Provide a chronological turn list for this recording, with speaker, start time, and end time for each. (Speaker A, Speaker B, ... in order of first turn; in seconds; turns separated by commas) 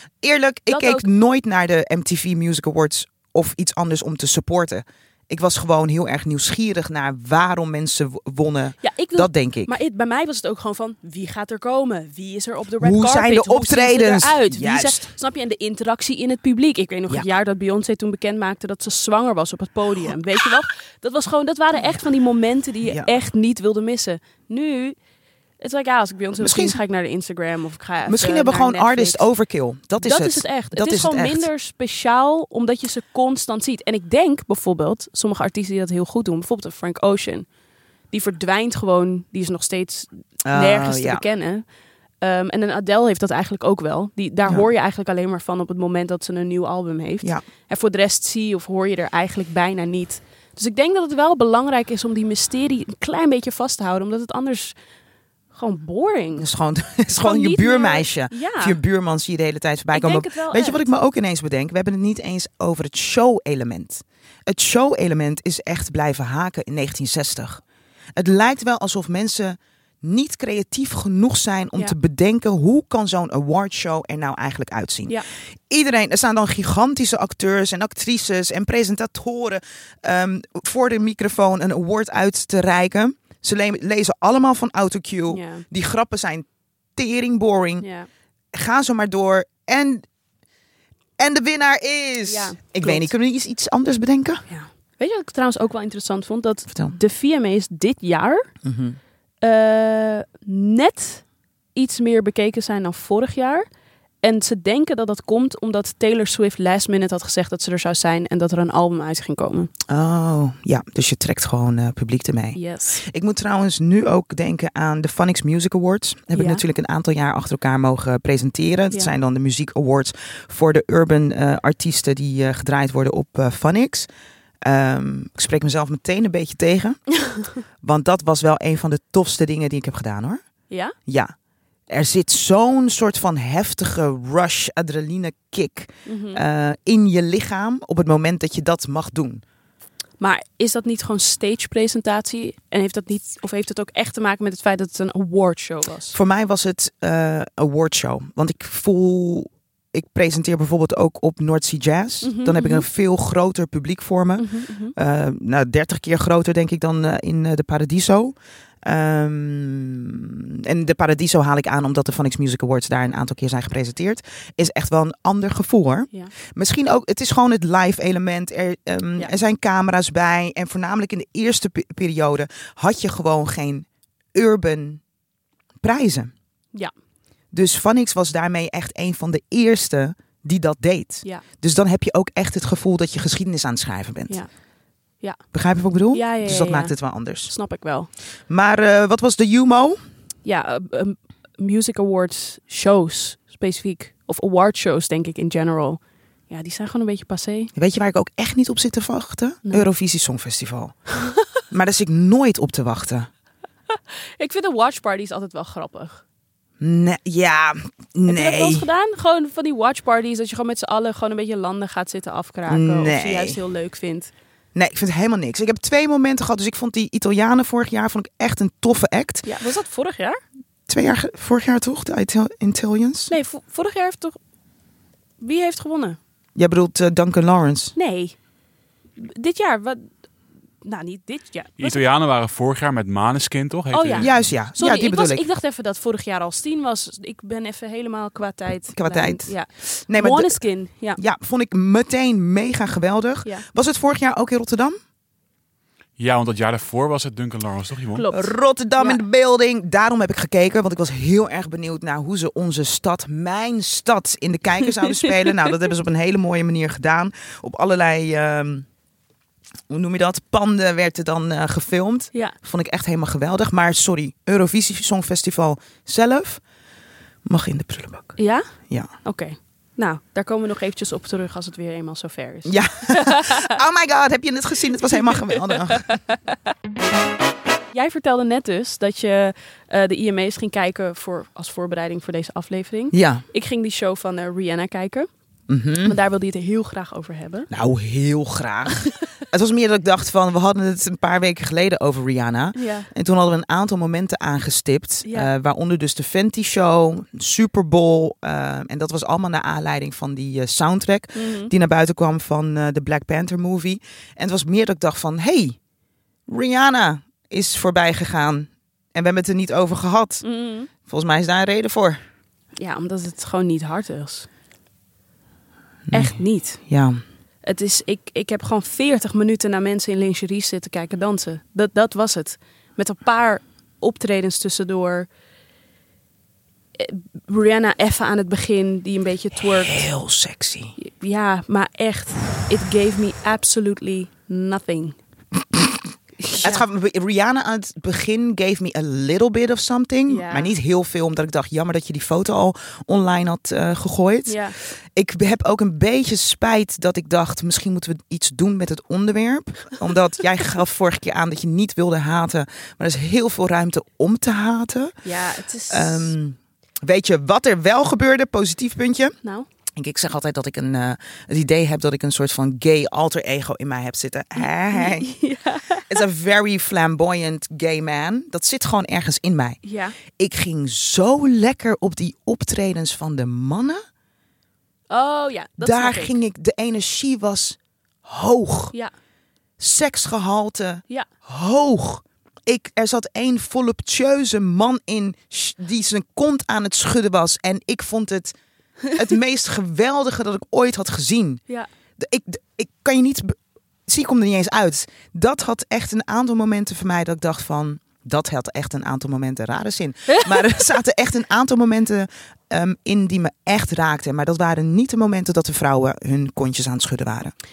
Speaker A: 0.2-9.7, Speaker B: 0.7-1.1, Speaker B: 8.8-25.0, Speaker A: 12.8-15.1, Speaker A: 22.8-23.1, Speaker B: 25.6-29.2, Speaker A: 26.4-26.8, Speaker A: 28.1-31.5, Speaker B: 30.0-37.5, Speaker B: 38.1-41.6, Speaker A: 40.4-41.2, Speaker B: 42.2-54.7, Speaker B: 55.5-56.5, Speaker A: 56.4-67.6, Speaker B: 57.2-58.8, Speaker B: 59.9-60.9, Speaker A: 68.2-87.8, Speaker B: 85.3-85.6, Speaker B: 87.8-88.1, Speaker A: 88.5-90.0, Speaker A: 91.2-94.4, Speaker B: 92.2-93.1, Speaker B: 94.5-98.5, Speaker A: 98.6-99.0, Speaker B: 99.4-101.2, Speaker B: 101.7-103.7, Speaker B: 104.2-109.7, Speaker A: 109.9-124.1, Speaker B: 112.5-113.0, Speaker B: 116.3-116.6, Speaker A: 124.6-127.0, Speaker A: 127.8-130.4, Speaker B: 130.7-130.9, Speaker A: 131.1-131.3, Speaker A: 131.9-139.4, Speaker B: 136.1-136.4, Speaker B: 140.2-146.2, Speaker A: 146.1-175.0, Speaker B: 152.2-152.8, Speaker B: 154.4-154.9, Speaker A: 175.8-176.3, Speaker A: 177.5-184.4, Speaker A: 185.5-187.5, Speaker B: 186.1-186.9, Speaker B: 187.5-188.1, Speaker A: 188.5-190.0, Speaker B: 190.4-197.7, Speaker A: 197.7-201.0, Speaker A: 201.7-203.3, Speaker B: 203.9-206.2, Speaker A: 206.8-208.8, Speaker B: 208.3-214.3, Speaker A: 212.7-213.6, Speaker A: 214.7-219.5, Speaker B: 219.4-220.4, Speaker A: 220.9-223.3, Speaker B: 223.3-224.4, Speaker B: 225.4-226.2, Speaker A: 226.6-227.9, Speaker B: 227.9-228.3, Speaker B: 229.2-230.1, Speaker B: 230.8-232.0, Speaker C: 231.8-234.3, Speaker B: 233.9-241.2, Speaker A: 234.2-235.4, Speaker A: 238.9-240.6, Speaker A: 241.2-245.0, Speaker C: 246.2-248.2, Speaker B: 248.1-249.2, Speaker A: 248.3-258.9, Speaker A: 259.9-266.6, Speaker A: 267.4-268.4, Speaker B: 268.4-268.6, Speaker B: 269.2-273.7, Speaker A: 272.6-276.1, Speaker B: 275.6-276.5, Speaker B: 277.9-285.3, Speaker A: 283.1-283.4, Speaker A: 285.7-286.1, Speaker B: 286.0-287.7, Speaker A: 287.7-305.8, Speaker B: 292.7-293.1, Speaker B: 295.2-295.5, Speaker B: 301.3-301.7, Speaker A: 306.5-310.4, Speaker B: 310.4-310.9, Speaker A: 311.0-312.2, Speaker B: 312.8-314.5, Speaker A: 316.1-317.2, Speaker B: 316.1-316.8, Speaker B: 317.6-325.3, Speaker B: 326.9-330.0, Speaker A: 329.6-330.9, Speaker B: 331.0-335.2, Speaker A: 335.7-336.0, Speaker B: 336.4-336.8, Speaker A: 336.6-355.1, Speaker B: 340.3-340.7, Speaker B: 344.4-344.8, Speaker B: 355.2-356.3, Speaker A: 355.9-359.4, Speaker A: 359.9-365.3, Speaker B: 364.9-366.2, Speaker A: 366.1-369.8, Speaker B: 369.8-370.1, Speaker A: 370.3-374.0, Speaker B: 375.1-376.3, Speaker A: 375.8-378.9, Speaker A: 379.8-388.5, Speaker A: 389.1-391.6, Speaker A: 392.2-393.6, Speaker A: 394.1-407.5